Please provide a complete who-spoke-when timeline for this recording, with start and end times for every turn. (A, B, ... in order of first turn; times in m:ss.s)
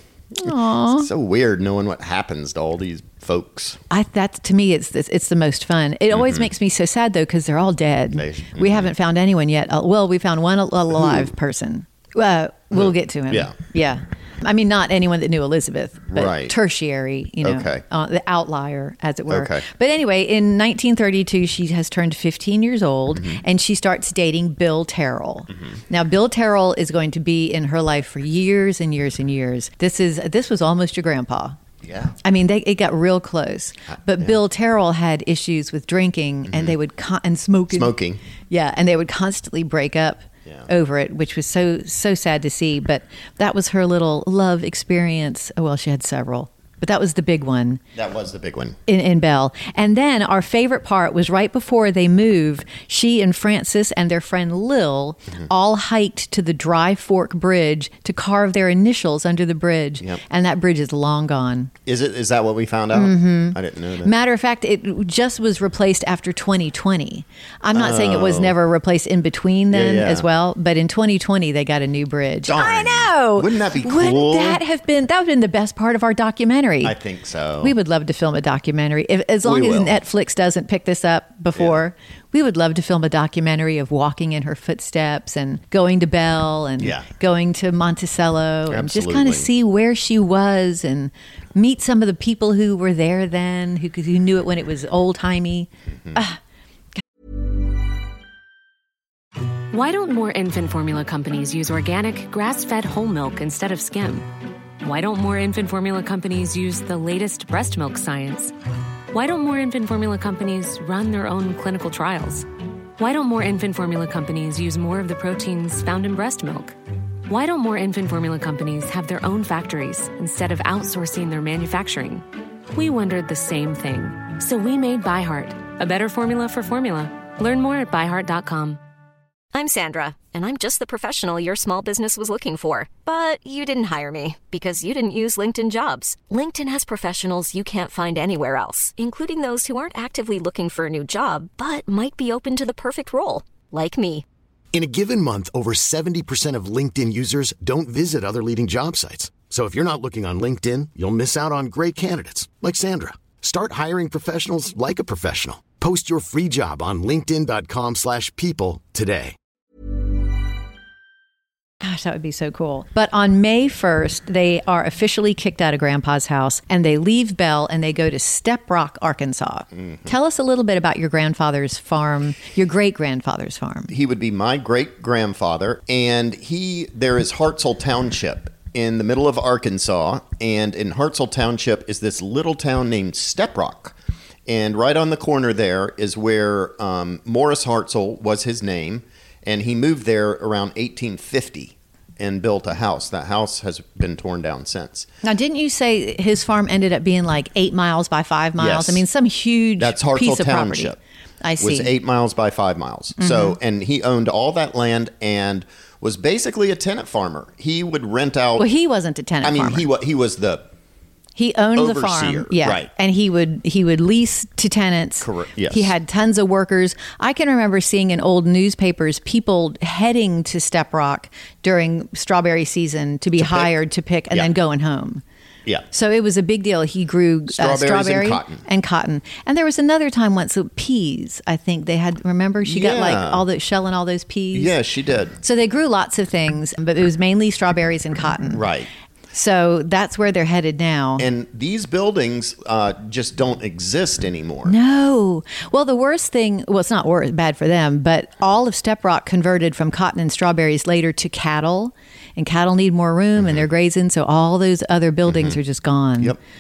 0:00.4-0:01.1 A
0:00.5-0:03.8 B
0:03.9-0:31.6 A
0:06.1-0:06.5 B
0:08.1-0:08.9 B
0:10.9-0:11.3 B
0:12.7-0:13.5 B
0:16.1-0:16.6 B
0:17.4-0:17.8 B
0:19.3-0:19.7 B
0:23.2-0:23.4 B
0:31.8-0:32.2 B
0:32.2-0:37.9 A
0:36.5-0:36.8 B
0:37.7-0:38.2 B
0:38.5-0:47.8 A
0:47.9-0:48.8 B
0:48.9-1:01.7 A
1:01.9-1:04.1 B
1:02.9-1:17.0 A
1:07.7-1:08.6 B
1:09.7-1:10.3 B
1:12.5-1:14.6 B
1:16.8-1:17.8 B
1:17.6-1:36.4 A
1:19.4-1:20.0 B
1:21.6-1:21.8 B
1:26.8-1:27.1 B
1:28.7-1:29.5 B
1:35.9-1:36.2 B
1:39.7-1:44.3 C
1:44.8-1:48.5 C
1:49.1-1:52.5 C
1:53.0-1:56.8 C
1:57.3-2:08.8 C
2:09.5-2:24.2 D
2:24.7-2:39.4 E
2:41.8-2:53.9 A
2:53.9-3:04.0 B
3:04.5-3:15.1 B
3:15.2-3:21.9 A
3:18.6-3:19.0 B
3:19.8-3:21.0 B
3:21.6-3:28.7 B
3:23.2-3:23.6 A
3:28.6-3:29.9 A
3:29.4-3:30.7 B
3:31.4-3:45.2 A
3:31.8-3:32.9 B
3:35.2-3:36.0 B
3:43.4-3:43.7 B
3:45.9-3:54.8 A
3:47.5-3:48.6 B
3:52.6-3:53.4 B
3:54.5-3:55.4 B
3:55.4-3:58.7 A
3:58.5-3:58.9 B
3:59.3-4:01.3 A
4:01.2-4:04.8 B
4:04.7-4:16.4 A
4:13.4-4:13.7 B
4:15.3-4:15.6 B